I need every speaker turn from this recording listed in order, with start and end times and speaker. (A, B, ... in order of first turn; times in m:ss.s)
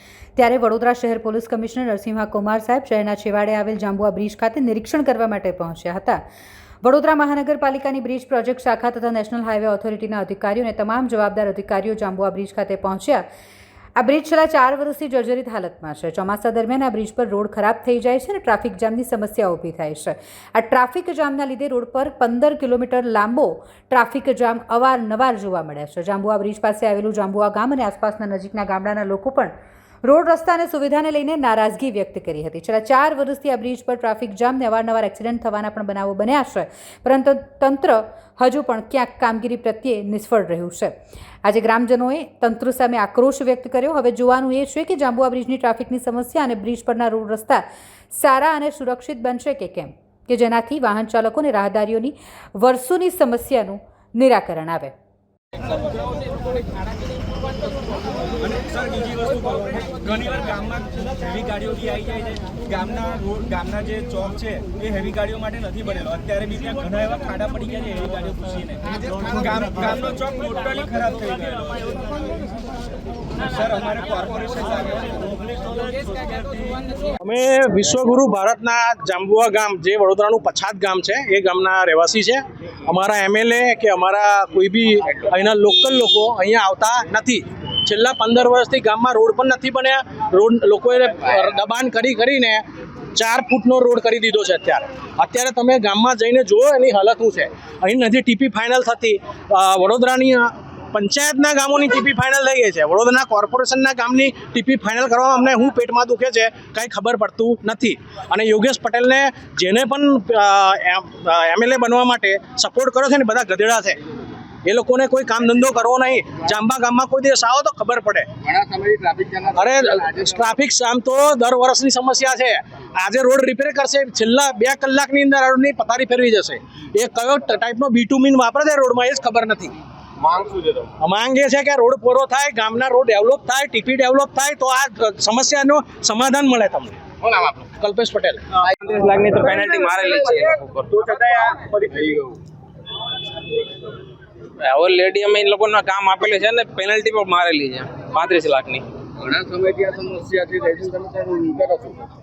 0:00.4-0:06.2 A
0:06.8-0:13.2 A
0:14.0-0:29.5 A
0:30.0-0:54.9 A
0:58.4-1:12.1 B
1:13.4-1:16.8 B
1:17.2-1:32.6 C
1:33.2-1:54.0 C
1:54.6-1:58.3 C
1:58.4-2:00.2 D
1:59.5-2:09.7 C
2:10.2-2:10.8 D
2:11.0-2:18.4 C
2:18.7-2:21.0 E
2:21.0-2:22.3 D
2:24.6-2:28.8 E
2:29.2-2:32.1 D